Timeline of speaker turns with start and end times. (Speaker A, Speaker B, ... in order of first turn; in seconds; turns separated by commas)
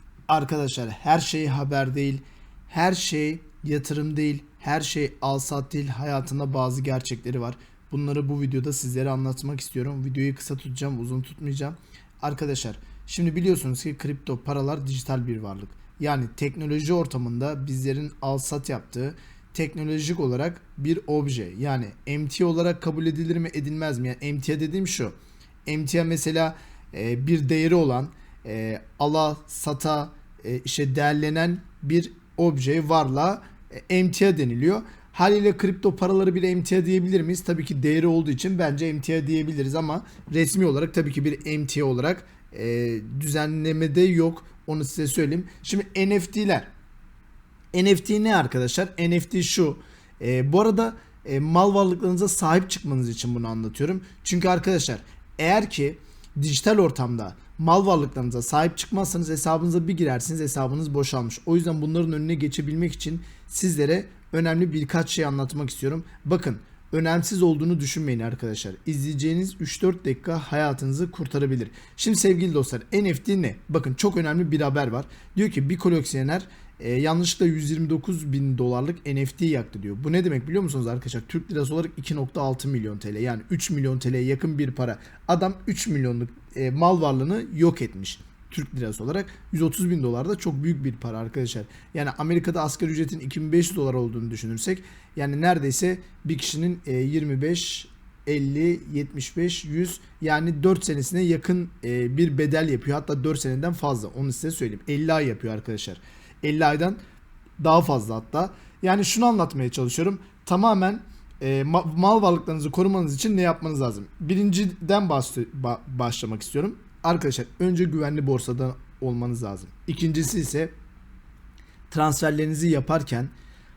Speaker A: 0.3-25.1, Speaker A: 25.7-46.7, Speaker A: 47.7-107.0, Speaker A: 107.6-120.7, Speaker A: 121.9-123.3